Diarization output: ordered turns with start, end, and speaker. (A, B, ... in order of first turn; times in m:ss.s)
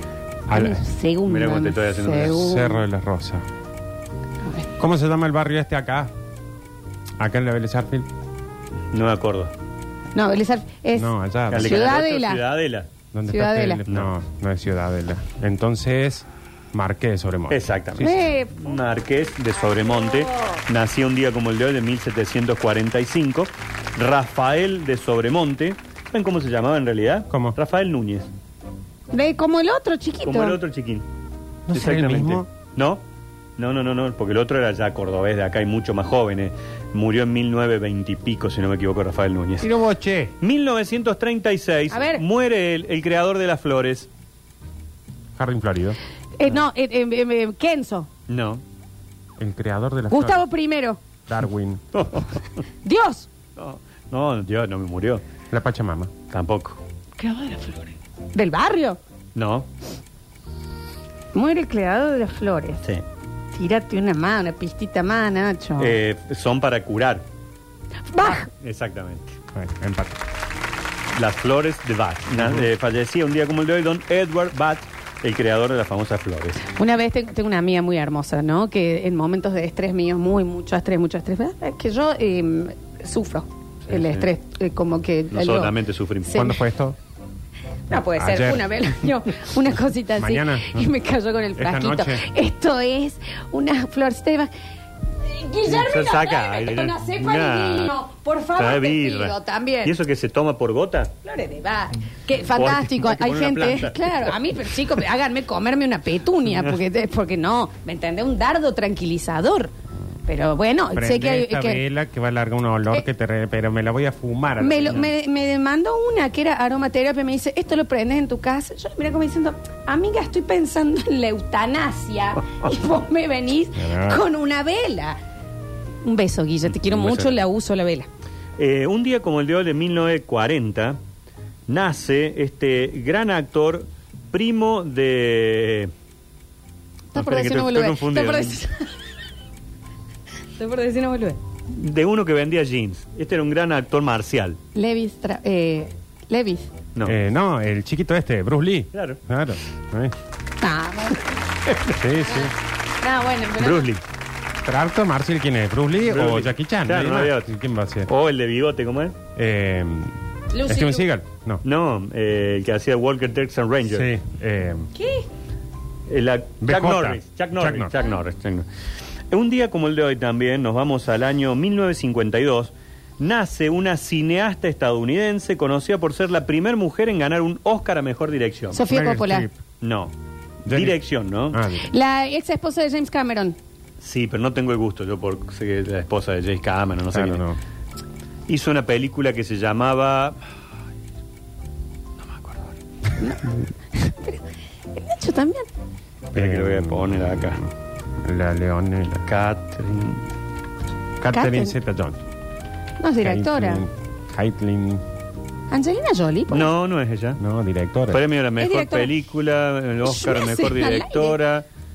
0:00.5-0:00.8 A
0:00.5-0:02.8 B
0:01.2-0:02.4 C
0:02.3-0:03.5 A
0:04.8-0:06.1 A
0:07.2-0:08.1 A
0:08.9-0:09.5 C
0:10.2-0:12.4 B
0:11.0-0:11.9 A
0:11.5-0:12.9 C
0:13.1-0:18.2 A
0:13.3-0:13.8 B
0:13.9-0:14.1 C
0:17.5-0:28.3 C
0:18.0-0:18.8 B
0:19.8-0:20.6 B
0:27.3-0:27.6 A
0:29.1-0:30.6 B
0:30.2-0:31.0 C
0:31.7-0:32.5 A
0:31.7-0:33.0 C
0:33.6-0:39.7 C
0:39.6-0:40.3 A
0:40.4-0:44.1 C
0:41.9-0:42.2 B
0:45.4-0:46.0 A
0:46.4-0:48.1 B
0:48.3-0:48.6 C
0:49.4-0:50.5 A
0:50.1-0:51.0 B
0:51.3-0:51.8 A
0:51.9-0:52.4 C
0:52.8-0:53.3 B
0:53.6-0:55.2 C
0:55.5-0:56.1 A
0:56.3-0:56.8 C
0:57.2-0:59.0 B
0:59.4-0:59.7 C
1:01.3-1:02.8 B
1:03.5-1:06.0 B
1:05.8-1:07.2 C
1:08.1-1:08.5 B
1:08.5-1:09.4 C
1:09.5-1:10.2 A
1:11.2-1:16.6 C
1:12.4-1:12.7 A
1:16.8-1:26.6 B
1:23.9-1:24.3 C
1:25.3-1:26.4 C
1:26.3-1:27.0 A
1:27.9-1:34.5 B
1:28.0-1:28.9 A
1:30.2-1:30.9 A
1:31.6-1:32.2 A
1:35.2-1:40.0 B
1:35.7-1:37.9 C
1:38.6-1:41.1 C
1:41.2-1:49.7 B
1:42.6-1:44.4 C
1:50.3-1:51.8 B
1:51.0-1:55.1 A
1:54.6-2:05.2 B
2:03.8-2:04.2 A
2:06.0-2:08.1 B
2:08.6-2:11.0 C
2:11.7-2:15.9 C
2:17.1-2:18.9 B
2:17.2-2:18.6 C
2:20.6-2:21.4 B
2:21.7-2:24.6 C
2:24.8-2:26.7 B
2:27.0-2:30.2 A
2:28.9-2:29.2 C
2:30.6-2:31.4 B
2:31.9-2:32.5 A
2:32.2-2:32.5 B
2:33.0-2:33.9 B
2:33.6-2:34.0 C
2:34.6-2:38.1 A
2:36.1-2:37.5 C
2:38.1-2:39.2 C
2:39.4-2:41.6 A
2:40.5-2:41.1 B
2:41.6-2:44.1 C
2:43.9-2:44.9 A
2:45.0-2:45.3 B
2:46.1-2:48.6 C
2:46.6-2:48.0 A
2:49.3-2:58.8 C
2:58.7-2:59.5 B
2:58.9-2:59.6 A
2:59.8-3:00.1 C
3:00.7-3:01.0 A
3:00.7-3:01.6 C
3:01.5-3:01.9 A
3:01.8-3:03.6 B
3:04.0-3:07.4 C
3:07.1-3:07.6 A
3:08.5-3:10.4 C
3:12.2-3:12.7 C
3:13.2-3:15.7 B
3:16.3-3:17.6 C
3:16.4-3:19.3 A
3:19.3-3:20.2 C
3:21.2-3:22.2 A
3:21.3-3:21.8 B
3:23.0-3:23.8 B
3:23.2-3:25.0 A
3:25.7-3:26.7 B
3:26.5-3:27.4 C
3:27.4-3:28.2 A
3:28.1-3:31.6 C
3:28.6-3:29.1 B
3:30.0-3:31.4 B